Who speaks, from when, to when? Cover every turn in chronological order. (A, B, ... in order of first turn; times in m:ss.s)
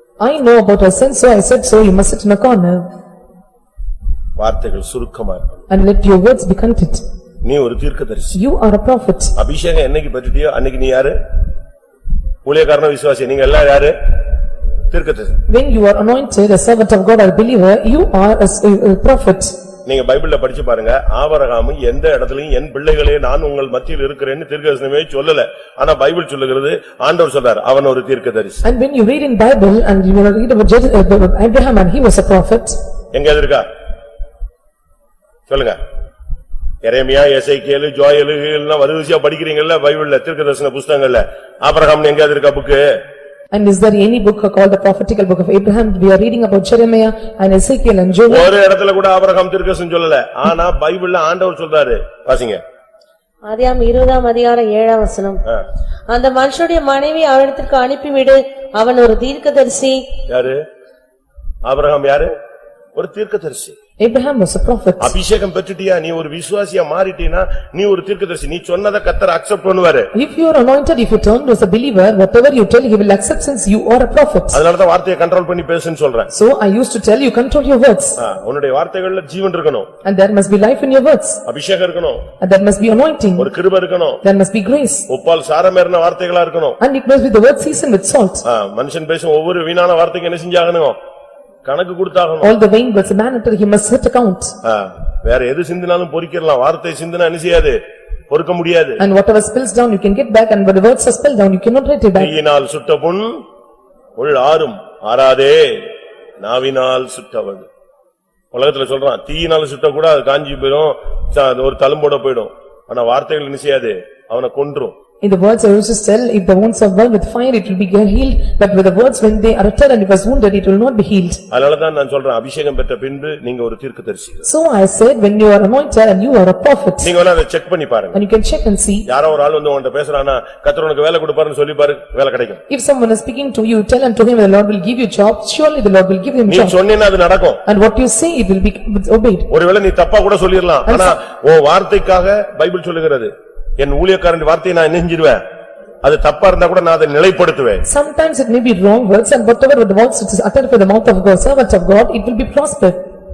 0:00.2-0:02.8 A
0:04.4-0:05.6 B
0:05.7-0:07.0 A
0:07.4-0:08.4 B
0:08.3-0:09.3 A
0:09.4-0:11.2 B
0:12.4-0:13.9 B
0:14.9-0:15.4 B
0:15.5-0:19.5 A
0:19.8-0:28.6 B
0:28.6-0:32.8 A
0:33.1-0:33.6 B
0:35.5-0:35.8 B
0:36.8-0:42.8 B
0:43.5-0:48.5 A
0:48.3-0:52.6 B
0:53.5-0:55.4 C
0:56.1-1:00.0 C
1:00.3-1:00.6 B
1:01.6-1:02.3 B
1:02.9-1:03.8 B
1:04.0-1:05.2 A
1:05.0-1:10.1 B
1:10.1-1:14.6 A
1:14.5-1:16.3 B
1:16.3-1:18.2 A
1:18.2-1:19.9 B
1:20.0-1:21.4 A
1:21.4-1:22.2 B
1:22.4-1:23.5 A
1:23.4-1:24.2 B
1:24.2-1:25.0 A
1:25.1-1:26.8 B
1:26.8-1:28.4 A
1:28.4-1:31.0 B
1:31.6-1:32.5 B
1:32.4-1:34.5 A
1:34.6-1:37.8 B
1:38.3-1:39.0 B
1:39.0-1:42.3 A
1:42.2-1:43.4 B
1:44.2-1:47.7 B
1:48.5-1:54.9 B
1:55.2-2:01.4 A
2:01.5-2:04.5 B
2:04.4-2:07.1 A
2:07.0-2:08.2 B
2:08.1-2:09.0 A
2:09.1-2:12.6 B
2:12.7-2:16.8 A
2:16.5-2:17.6 B
2:17.6-2:19.5 A
2:19.5-2:25.4 B
2:20.9-2:21.1 A
2:26.0-2:27.8 B
2:27.8-2:33.0 A